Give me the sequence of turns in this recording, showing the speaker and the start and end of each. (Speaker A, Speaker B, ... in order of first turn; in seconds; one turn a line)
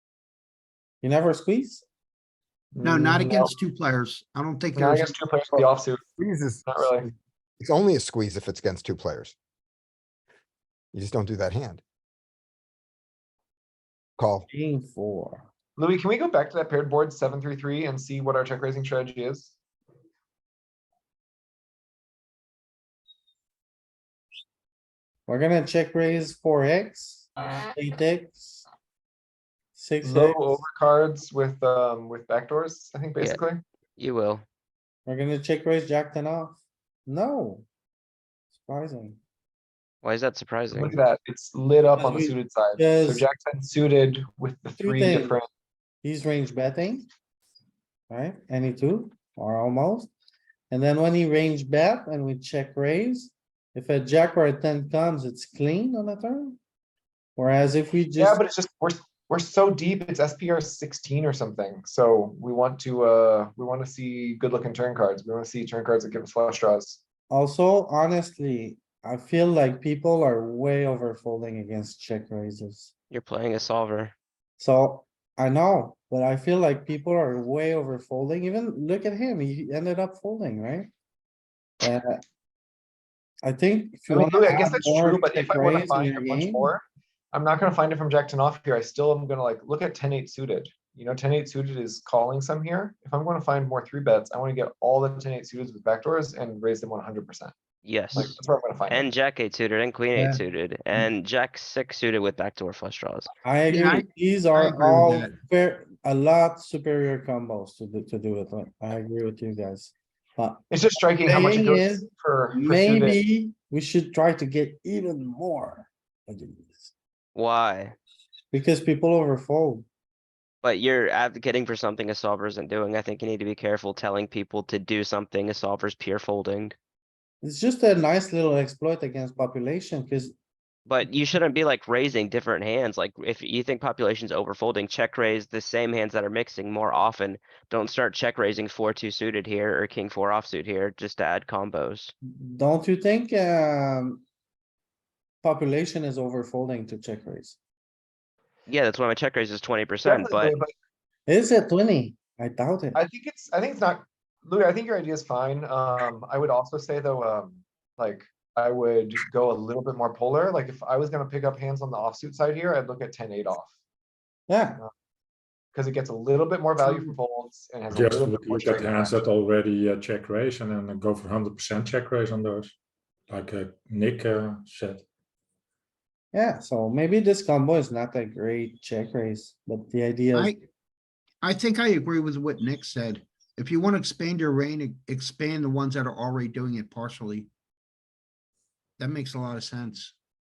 Speaker A: 1.0-1.9
Speaker B: 2.7-3.5
Speaker C: 2.8-5.2
Speaker B: 4.7-6.0
Speaker D: 5.5-9.4
Speaker B: 6.7-7.0
Speaker D: 10.9-11.8
Speaker D: 14.2-14.5
Speaker A: 14.5-15.5
Speaker B: 15.8-19.5
Speaker A: 25.3-28.6
Speaker A: 29.8-30.6
Speaker B: 30.0-33.6
Speaker E: 34.0-34.5
Speaker A: 35.0-37.6
Speaker A: 38.5-39.2
Speaker E: 40.0-41.0
Speaker B: 40.7-45.5
Speaker A: 42.0-43.3
Speaker A: 44.8-45.4
Speaker A: 46.0-47.1
Speaker A: 48.1-50.1
Speaker A: 50.7-56.6
Speaker A: 57.4-58.4
Speaker B: 58.2-67.0
Speaker A: 67.3-72.9
Speaker E: 73.1-74.1
Speaker A: 74.6-80.9
Speaker A: 81.8-82.2
Speaker A: 83.4-86.7
Speaker B: 84.1-97.5
Speaker E: 97.8-98.3
Speaker B: 98.1-99.1
Speaker E: 98.9-103.3
Speaker A: 100.2-100.4
Speaker A: 103.5-116.9
Speaker C: 103.7-105.3
Speaker B: 110.7-113.2
Speaker E: 117.3-118.0
Speaker A: 118.5-119.9
Speaker E: 120.6-126.7
Speaker A: 127.4-130.3
Speaker E: 130.8-142.1
Speaker A: 142.2-144.2
Speaker A: 145.4-147.6
Speaker E: 148.7-150.6
Speaker B: 150.0-150.7
Speaker A: 151.3-153.0
Speaker B: 152.9-163.7
Speaker A: 164.5-164.8
Speaker B: 165.7-169.2
Speaker F: 167.9-172.7
Speaker F: 173.3-175.0
Speaker A: 176.3-180.5
Speaker C: 180.3-180.6
Speaker C: 181.4-187.5
Speaker C: 189.0-190.1